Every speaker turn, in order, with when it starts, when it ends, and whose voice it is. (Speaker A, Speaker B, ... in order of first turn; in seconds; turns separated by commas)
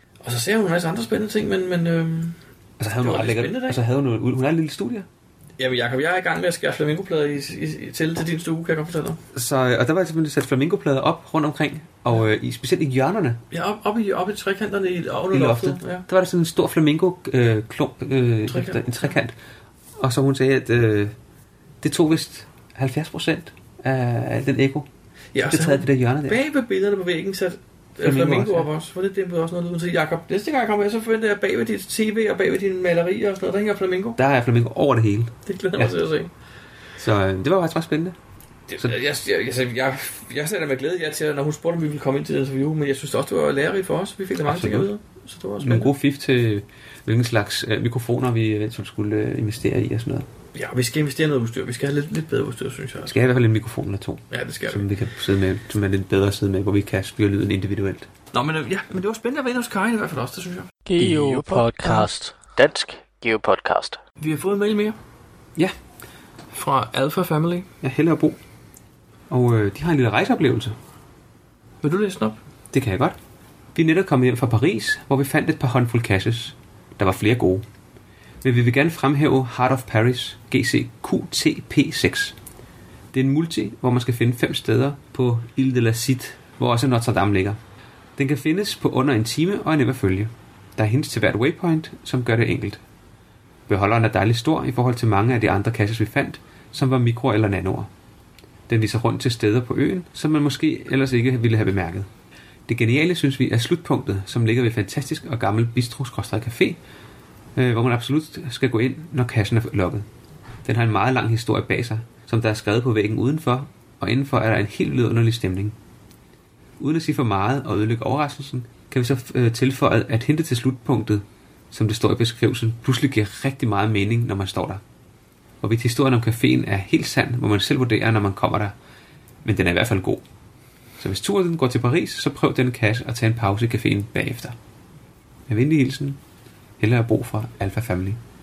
Speaker A: 0.2-2.4, Speaker B: 2.8-5.1, Speaker A: 3.0-3.8, Speaker A: 5.6-9.2, Speaker B: 9.3-13.4, Speaker A: 13.5-16.0, Speaker B: 15.3-19.3, Speaker A: 18.5-19.1, Speaker B: 19.9-21.1, Speaker B: 21.8-24.9, Speaker A: 25.3-34.2, Speaker B: 25.4-26.4, Speaker B: 28.0-28.7, Speaker B: 34.2-36.0, Speaker A: 35.5-36.3, Speaker B: 37.0-38.1, Speaker A: 38.7-45.9, Speaker B: 44.4-44.9, Speaker B: 45.6-50.3, Speaker A: 50.5-53.1, Speaker B: 53.0-58.1, Speaker A: 54.3-54.8, Speaker A: 58.3-61.6, Speaker C: 60.9-64.0, Speaker A: 64.2-65.0, Speaker A: 66.5-67.7, Speaker B: 67.8-68.4, Speaker B: 69.3-70.8, Speaker A: 71.8-72.4, Speaker B: 72.7-73.2, Speaker B: 73.7-77.6, Speaker B: 78.4-82.3, Speaker B: 83.1-87.6, Speaker B: 88.2-92.8, Speaker B: 93.7-97.9, Speaker B: 98.7-102.1, Speaker B: 102.7-106.8, Speaker B: 107.5-110.0, Speaker B: 110.6-115.7, Speaker B: 116.8-124.8, Speaker B: 125.6-128.7, Speaker B: 129.4-130.2, Speaker B: 131.0-134.6, Speaker B: 135.5-136.2, Speaker B: 136.8-138.2